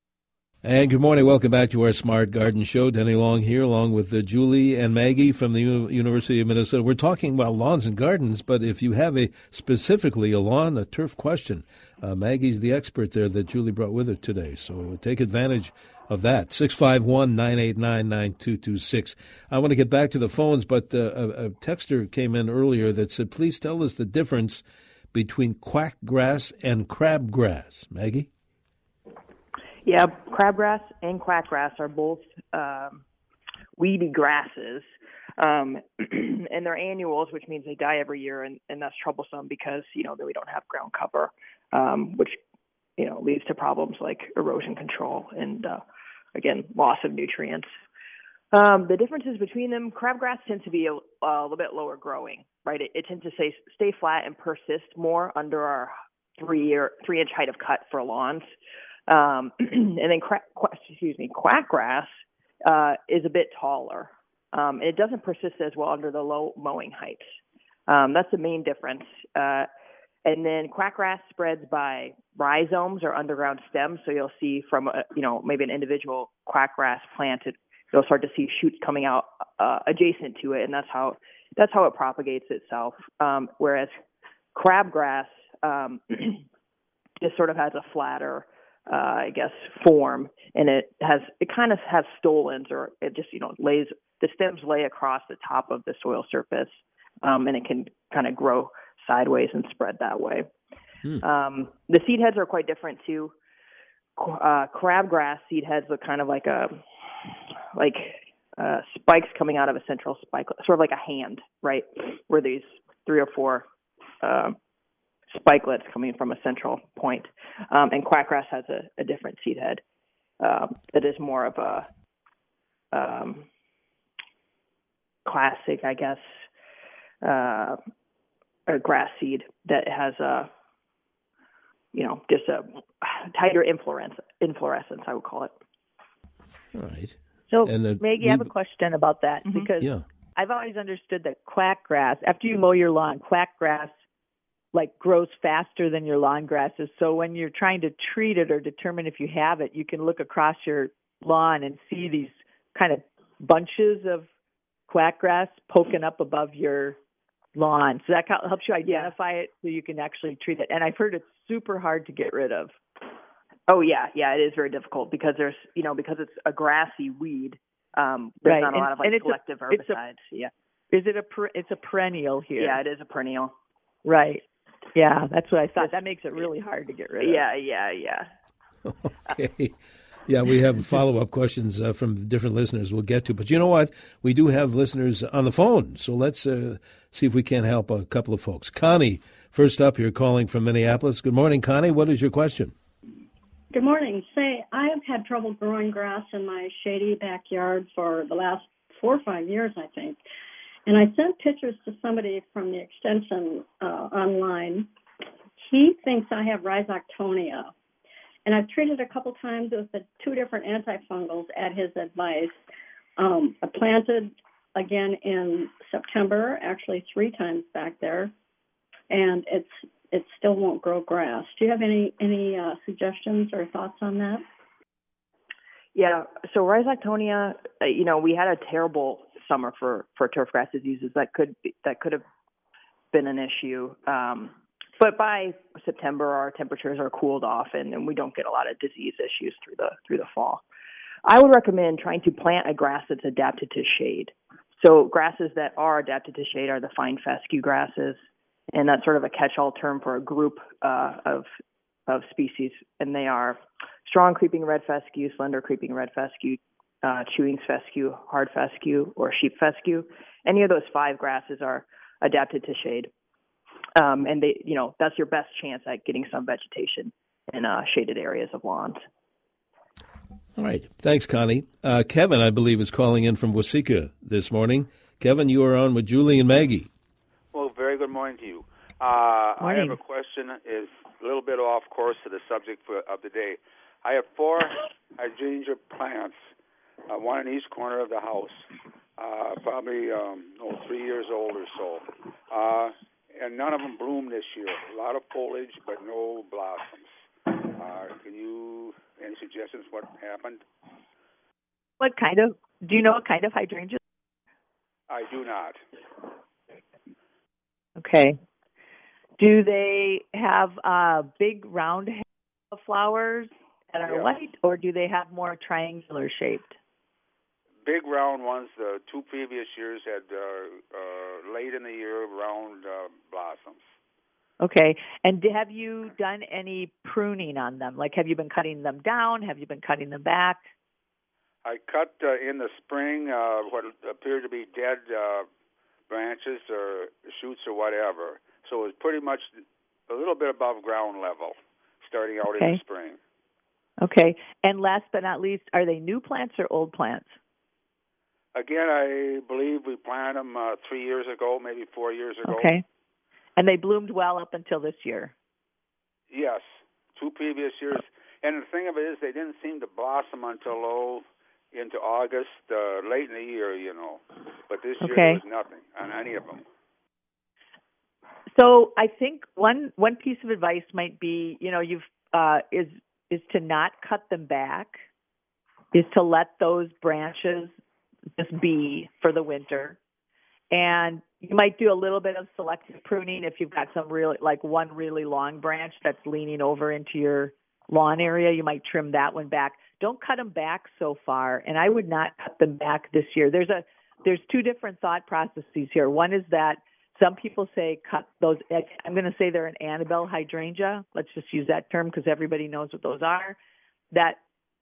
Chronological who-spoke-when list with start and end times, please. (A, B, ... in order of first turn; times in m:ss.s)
0:00.6-0:28.3 A
0:29.8-0:33.0 B
0:33.8-0:42.4 B
0:43.0-0:45.8 B
0:46.4-0:47.7 B
0:48.5-0:58.5 B
0:59.1-1:02.1 B
1:02.6-1:07.4 B
1:07.9-1:09.7 B
1:10.2-1:23.9 B
1:24.6-1:26.4 B
1:27.2-1:40.5 B
1:41.2-1:43.3 B
1:44.2-1:53.7 B
1:54.2-1:54.6 B
1:55.3-1:59.8 B
2:00.4-2:01.9 B
2:02.9-2:03.5 B
2:05.2-2:06.4 B
2:07.2-2:07.8 B
2:08.7-2:10.5 B
2:11.9-2:15.5 B
2:16.7-2:18.5 A
2:17.5-2:24.0 C
2:24.7-2:34.3 C
2:34.9-2:37.0 C
2:37.6-2:42.8 C
2:38.8-2:39.1 B
2:43.7-2:50.5 B
2:48.4-2:50.0 C
2:50.9-2:52.8 C
2:52.6-2:53.5 B
2:54.0-2:54.4 C
2:55.0-2:57.4 C
2:57.2-2:58.3 B
2:58.8-3:12.7 A
3:13.7-3:20.2 D
3:20.9-3:24.9 D
3:25.6-3:27.7 D
3:28.5-3:32.6 D
3:33.2-3:38.3 D
3:39.1-3:44.4 D
3:46.0-3:52.2 B
3:53.1-4:00.6 B
4:01.2-4:08.2 B
4:08.7-4:11.5 B
4:12.1-4:23.1 B
4:24.0-4:29.0 B
4:30.6-4:36.9 A
4:37.5-4:46.4 E
4:39.6-4:40.0 C
4:47.1-5:00.6 E
5:02.0-5:04.0 C
5:05.1-5:05.8 E
5:08.0-5:08.4 C
5:09.4-5:16.8 C
5:17.8-5:23.8 E
5:24.6-5:30.7 C
5:31.6-5:35.5 E
5:36.1-5:43.2 E
5:44.0-5:47.4 C
5:48.6-5:52.8 E
5:52.5-5:52.8 C
5:53.6-5:55.3 C
5:56.3-6:06.6 E
6:05.0-6:05.4 C
6:08.6-6:15.0 C
6:15.9-6:17.7 C
6:18.4-6:20.0 C
6:20.7-6:43.6 C
6:44.1-6:44.4 C